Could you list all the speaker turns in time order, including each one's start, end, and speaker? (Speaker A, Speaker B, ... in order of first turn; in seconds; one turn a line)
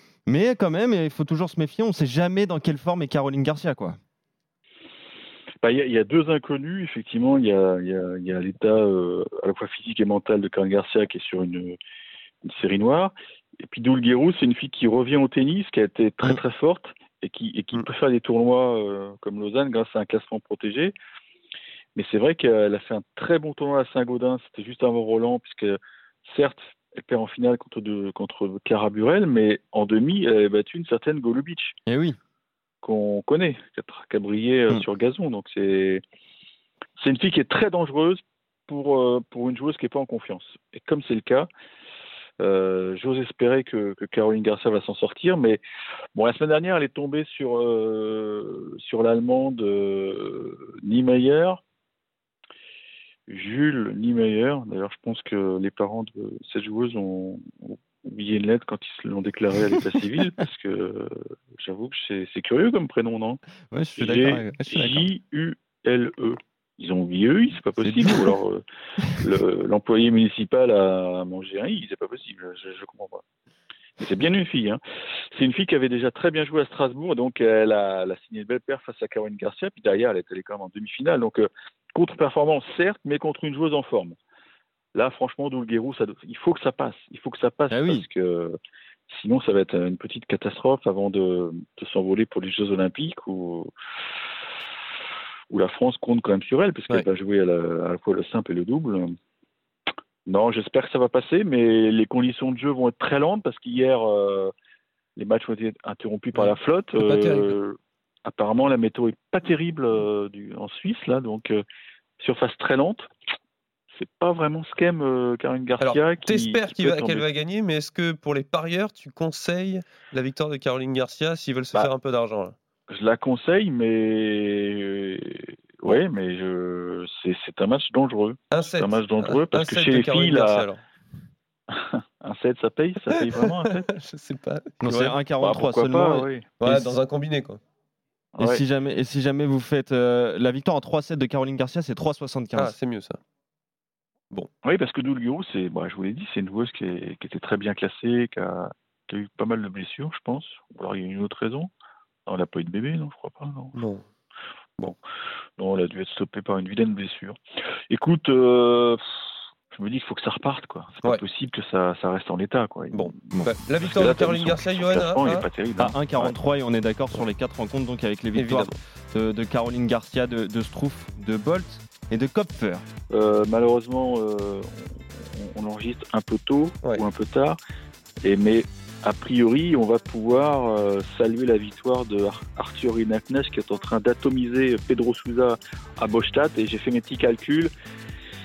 Speaker A: 0.3-4.0
Speaker B: 5.6-11.8
Speaker B: 12.4-20.9
Speaker B: 21.9-31.7
Speaker A: 31.9-32.2
Speaker B: 32.8-36.0
Speaker B: 37.0-41.5
Speaker B: 42.4-45.6
Speaker B: 46.1-51.6
Speaker B: 53.3-63.4
Speaker A: 63.7-65.1
Speaker B: 64.0-68.6
Speaker A: 67.8-68.3
Speaker B: 69.2-73.2
Speaker B: 74.0-74.8
Speaker B: 75.3-84.2
Speaker B: 84.9-88.6
Speaker A: 87.7-88.1
Speaker B: 89.1-93.7
Speaker B: 95.5-99.1
Speaker B: 100.3-104.5
Speaker B: 105.2-111.6
Speaker C: 106.4-107.5
Speaker B: 112.2-113.0
Speaker B: 113.9-117.3
Speaker C: 115.8-122.5
Speaker B: 122.9-130.7
Speaker C: 128.5-130.8
Speaker B: 131.7-133.9
Speaker C: 133.5-135.2
Speaker A: 134.8-137.0
Speaker B: 135.4-136.5
Speaker C: 136.6-137.6
Speaker B: 138.3-138.6
Speaker A: 138.4-142.7
Speaker C: 142.6-143.2
Speaker B: 144.6-151.7
Speaker B: 152.3-153.8
Speaker C: 153.8-154.0
Speaker B: 155.6-157.4
Speaker B: 157.9-159.0
Speaker B: 159.7-166.4
Speaker C: 162.9-165.5
Speaker A: 165.8-172.8
Speaker C: 168.3-168.8
Speaker B: 173.1-177.6
Speaker B: 178.2-187.7